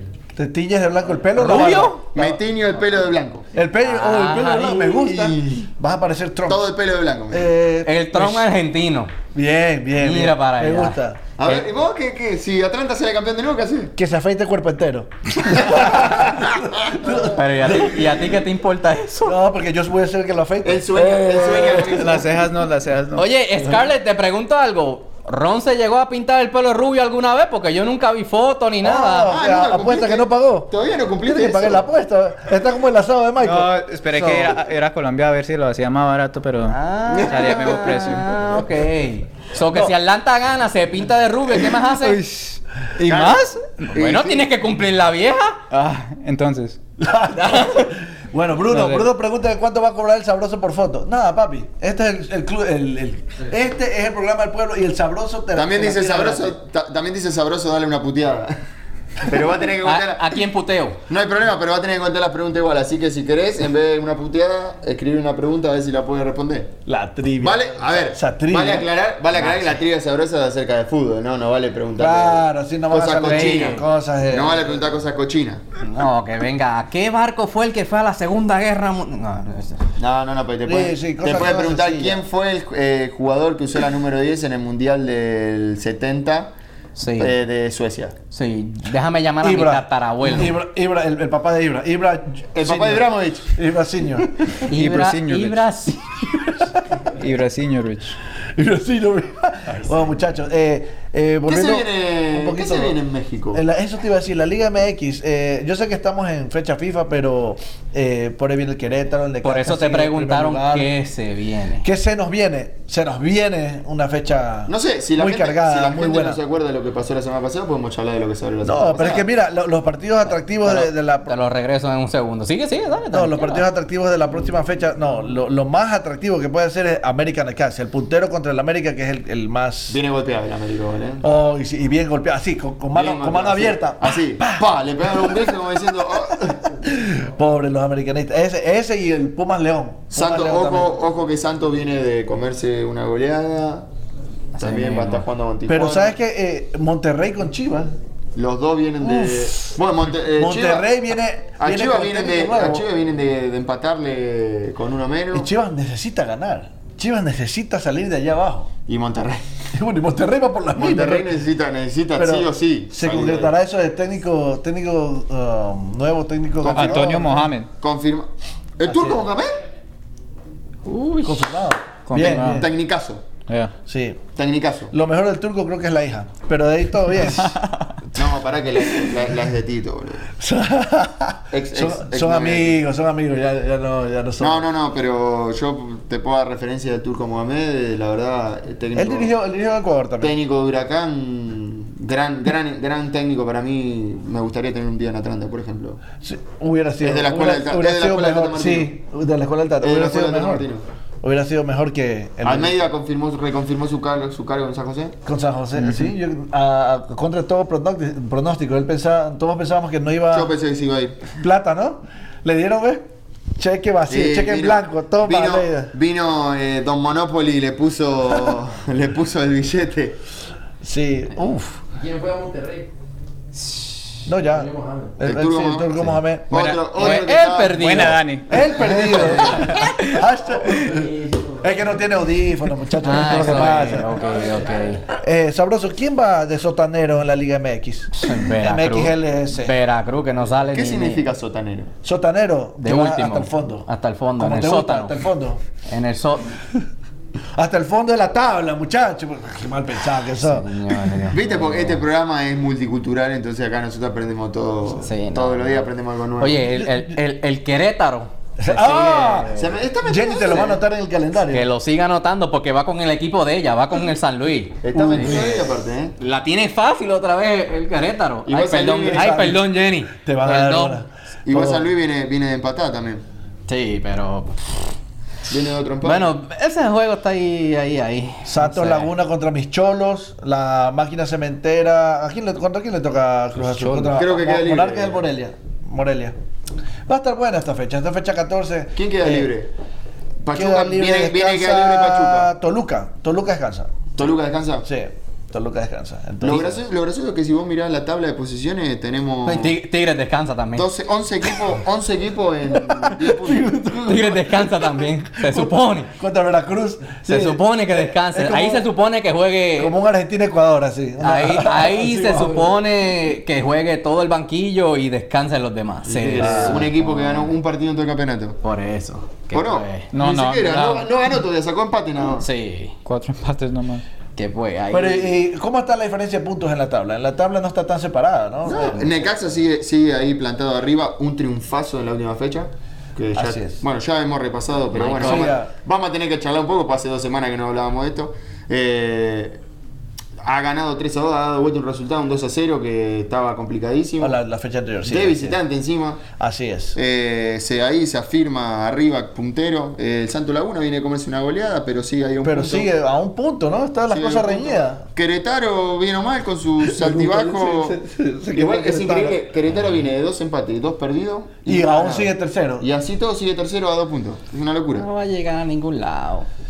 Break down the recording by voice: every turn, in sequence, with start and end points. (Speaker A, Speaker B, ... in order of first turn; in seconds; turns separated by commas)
Speaker A: 0.3-2.4, Speaker B: 1.4-2.0, Speaker C: 2.1-3.5, Speaker A: 3.5-6.6, Speaker B: 3.8-4.9, Speaker C: 4.9-5.7, Speaker C: 6.5-7.5, Speaker A: 7.3-8.4, Speaker B: 7.8-9.1, Speaker A: 9.3-11.2, Speaker B: 10.0-11.0, Speaker C: 11.4-13.9, Speaker A: 13.9-18.0, Speaker C: 15.7-16.2, Speaker B: 17.1-19.4, Speaker A: 19.2-22.2, Speaker C: 20.6-22.4, Speaker D: 21.8-23.3, Speaker B: 23.1-29.3, Speaker A: 28.8-30.7, Speaker C: 29.3-31.8, Speaker A: 31.2-34.5, Speaker D: 33.4-38.3, Speaker B: 36.7-42.2, Speaker C: 37.1-37.6, Speaker D: 42.0-43.9, Speaker C: 43.1-44.5, Speaker B: 43.9-45.6, Speaker D: 45.7-46.8, Speaker A: 47.0-56.6, Speaker D: 48.7-49.1, Speaker C: 55.5-58.5, Speaker C: 59.2-60.4, Speaker B: 59.8-61.0, Speaker C: 61.1-66.7, Speaker A: 66.8-68.9, Speaker C: 67.4-75.6, Speaker A: 72.0-74.8, Speaker B: 73.2-73.8, Speaker B: 75.8-79.8, Speaker C: 80.0-86.5, Speaker A: 80.7-82.2, Speaker B: 87.0-87.3, Speaker C: 87.2-88.2, Speaker B: 88.3-90.6, Speaker A: 89.4-94.6, Speaker C: 92.5-93.5, Speaker B: 94.6-96.0, Speaker D: 94.7-95.6, Speaker D: 97.2-98.2, Speaker A: 98.5-102.9, Speaker C: 101.5-103.6, Speaker A: 103.5-110.9, Speaker B: 109.4-111.8, Speaker A: 111.8-116.4, Speaker C: 114.7-119.3, Speaker A: 118.6-121.3, Speaker B: 120.6-123.6, Speaker A: 123.1-130.0, Speaker C: 129.9-131.3, Speaker A: 131.2-135.5, Speaker C: 132.9-136.6, Speaker A: 136.4-140.9, Speaker C: 140.1-143.9, Speaker B: 144.6-145.2, Speaker C: 144.6-146.1, Speaker A: 145.7-147.9, Speaker C: 148.3-150.9, Speaker A: 149.0-149.8, Speaker A: 150.3-152.8, Speaker C: 151.6-155.5, Speaker A: 155.3-158.7, Speaker C: 158.9-159.5, Speaker A: 159.7-161.3, Speaker C: 160.7-163.5, Speaker A: 162.2-167.5, Speaker C: 166.6-169.6, Speaker D: 166.6-167.7, Speaker A: 168.9-169.2, Speaker B: 170.8-171.5, Speaker A: 171.2-172.7, Speaker D: 172.1-172.7, Speaker C: 172.3-173.2, Speaker D: 173.5-173.8, Speaker A: 173.8-174.2, Speaker C: 174.3-174.9, Speaker A: 174.9-177.6, Speaker D: 177.4-177.9, Speaker C: 178.1-180.3, Speaker A: 178.9-179.1, Speaker A: 180.4-184.6, Speaker C: 181.5-182.8, Speaker C: 184.4-189.3, Speaker A: 188.9-190.3, Speaker C: 190.2-196.0, Speaker A: 196.2-200.6, Speaker C: 197.0-198.9, Speaker C: 199.8-200.8, Speaker A: 201.2-202.7, Speaker C: 202.4-205.2, Speaker A: 205.2-210.5, Speaker C: 210.3-211.2, Speaker A: 211.3-213.0, Speaker A: 213.6-215.9, Speaker C: 214.1-220.2, Speaker A: 220.8-221.8, Speaker E: 222.0-222.9, Speaker A: 224.2-226.6, Speaker E: 224.5-225.1, Speaker C: 225.2-228.2, Speaker D: 226.5-227.0, Speaker B: 226.9-228.2, Speaker D: 227.7-228.7, Speaker A: 228.5-234.2, Speaker C: 228.7-229.7, Speaker B: 229.3-229.6, Speaker D: 229.6-230.2, Speaker E: 230.8-231.4, Speaker B: 233.0-235.1, Speaker A: 235.1-239.7, Speaker B: 238.2-241.2, Speaker C: 240.7-241.9, Speaker A: 242.0-245.6, Speaker B: 242.8-245.2, Speaker B: 245.8-246.5, Speaker A: 247.6-251.2, Speaker B: 250.4-252.0, Speaker C: 251.3-256.7, Speaker B: 255.0-255.8, Speaker B: 256.4-259.6, Speaker A: 256.8-257.1, Speaker A: 258.6-259.5, Speaker C: 259.5-260.8, Speaker A: 260.1-261.6, Speaker B: 261.5-265.6, Speaker C: 264.8-266.1, Speaker A: 264.9-265.5, Speaker B: 266.2-271.0, Speaker C: 268.4-269.4, Speaker A: 269.1-269.6, Speaker A: 270.2-271.8, Speaker C: 271.5-273.2, Speaker B: 273.7-274.9, Speaker C: 275.5-276.3, Speaker B: 276.0-279.1, Speaker A: 278.4-286.3, Speaker C: 284.1-285.2, Speaker A: 287.1-289.5, Speaker C: 288.9-289.7, Speaker C: 290.4-292.5, Speaker A: 290.5-293.9, Speaker C: 294.2-294.9, Speaker A: 294.8-296.7, Speaker C: 296.4-299.8, Speaker B: 299.4-300.9, Speaker C: 300.7-303.9, Speaker A: 302.8-304.8, Speaker B: 304.1-306.1, Speaker A: 305.4-307.6, Speaker B: 307.2-309.9, Speaker A: 308.3-308.9, Speaker A: 309.8-312.7, Speaker B: 311.2-317.4, Speaker C: 316.0-318.6, Speaker A: 316.4-316.9, Speaker B: 318.6-320.1, Speaker C: 319.5-322.5, Speaker D: 320.1-321.1, Speaker B: 322.4-322.9, Speaker D: 323.0-324.0, Speaker B: 324.4-325.4, Speaker A: 324.9-329.1, Speaker C: 328.6-339.6, Speaker A: 333.4-333.8, Speaker B: 334.9-335.6, Speaker A: 335.1-335.7, Speaker C: 340.4-344.4, Speaker A: 344.2-345.6, Speaker C: 345.0-346.3, Speaker A: 346.3-347.0, Speaker C: 346.9-352.9, Speaker A: 352.4-355.0, Speaker C: 354.1-357.9, Speaker A: 356.8-359.4, Speaker C: 358.5-365.1, Speaker A: 361.6-362.9, Speaker B: 364.9-366.5